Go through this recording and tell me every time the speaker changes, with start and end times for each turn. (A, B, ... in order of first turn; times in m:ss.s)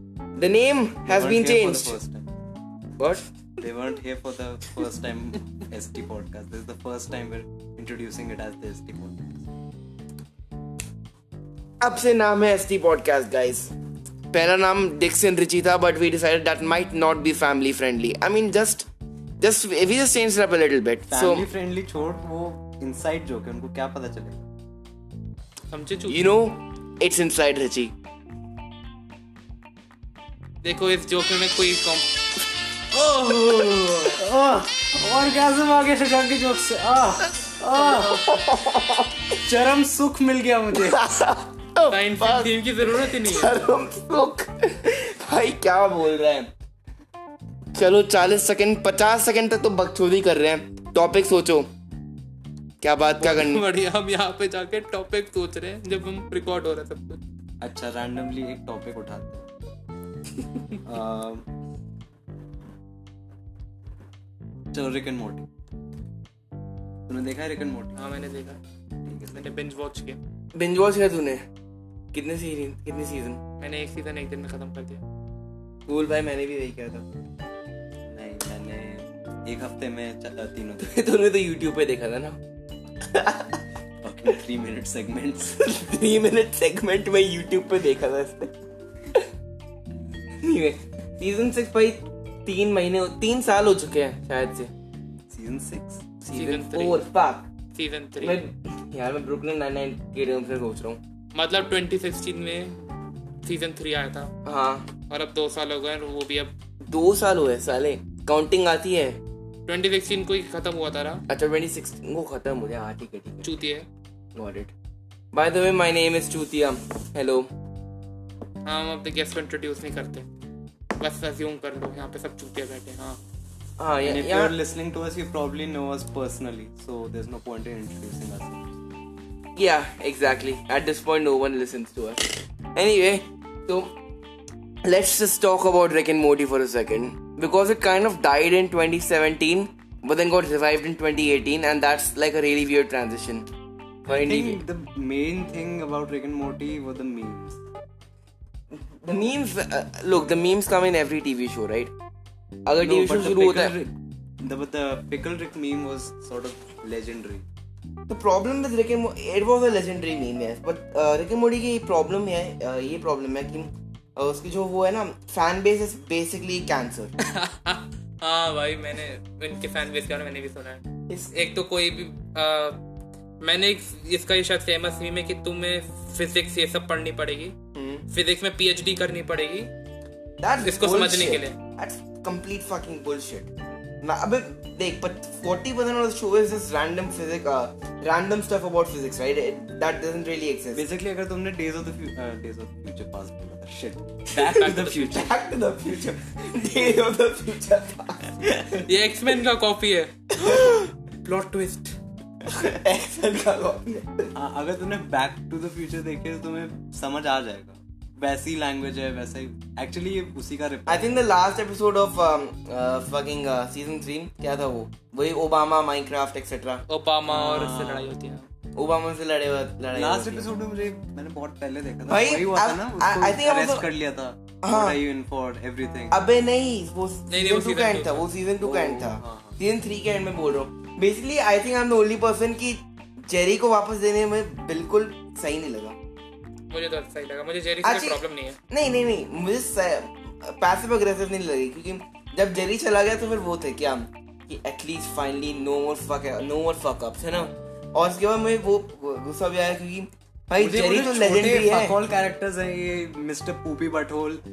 0:00.4-0:02.0 A
0:01.0-0:02.3 B
0:03.0-0:03.3 A
0:03.6-0:09.5 B
0:11.8-0:13.7 A
0:14.3-0:18.9 A
0:19.4-0:21.4 A
0:21.1-0:24.5 B
0:25.7-0:26.3 C
0:26.1-0:27.9 A
0:30.6-0:32.2 C
0:32.9-0:38.4 B
0:33.2-0:34.0 C
0:37.8-0:39.3 A
0:39.4-0:41.1 B
0:40.7-0:46.5 A
0:41.9-0:43.6 C
0:47.7-0:51.7 A
0:52.8-0:53.6 A
0:53.2-0:57.2 C
0:57.6-0:59.5 B
1:00.8-1:01.5 B
1:04.7-1:05.5 B
1:07.1-1:08.0 B
1:08.0-1:08.6 C
1:09.0-1:09.5 B
1:09.3-1:10.2 C
1:10.5-1:11.4 A
1:12.1-1:13.4 A
1:13.6-1:15.0 C
1:15.9-1:17.0 A
1:18.1-1:20.9 B
1:20.8-1:22.4 A
1:23.0-1:23.6 A
1:24.0-1:25.6 B
1:25.5-1:28.5 A
1:30.4-1:34.7 A
1:35.3-1:36.1 B
1:36.2-1:37.5 A
1:36.3-1:37.0 C
1:37.7-1:38.4 C
1:38.2-1:41.0 A
1:41.3-1:42.8 C
1:43.4-1:44.3 C
1:44.4-1:44.9 A
1:45.1-1:46.5 C
1:46.9-1:49.2 A
1:49.7-1:51.2 C
1:51.3-1:53.5 A
1:53.4-1:53.9 C
1:54.3-1:54.7 A
1:55.3-1:57.5 A
1:58.6-2:00.2 C
2:01.0-2:03.2 C
2:03.8-2:04.5 A
2:04.0-2:08.8 B
2:09.6-2:13.9 A
2:14.8-2:23.5 A
2:24.0-2:24.6 A
2:24.1-2:27.6 B
2:28.7-2:31.9 A
2:32.6-2:33.7 A
2:32.8-2:37.4 B
2:38.1-2:47.1 A
2:47.2-2:52.8 C
2:53.4-2:57.5 C
2:57.7-2:58.0 A
2:58.1-2:59.7 C
3:00.4-3:03.5 A
3:00.6-3:01.6 C
3:04.0-3:10.8 A
3:10.7-3:15.3 B
3:14.3-3:15.2 C
3:14.6-3:18.9 A
3:18.8-3:22.0 C
3:20.4-3:20.8 A
3:22.4-3:24.3 A
3:24.3-3:31.2 B
3:30.9-3:36.8 A
3:36.9-3:38.5 C
3:37.3-3:38.1 B
3:38.7-3:40.5 A
3:39.9-3:46.2 B
3:42.1-3:43.8 A
3:44.6-3:45.0 A
3:46.1-3:56.0 A
3:47.3-3:48.3 C
3:48.6-3:49.6 B
3:56.7-3:58.6 C
3:57.8-4:12.0 A
4:10.6-4:14.4 B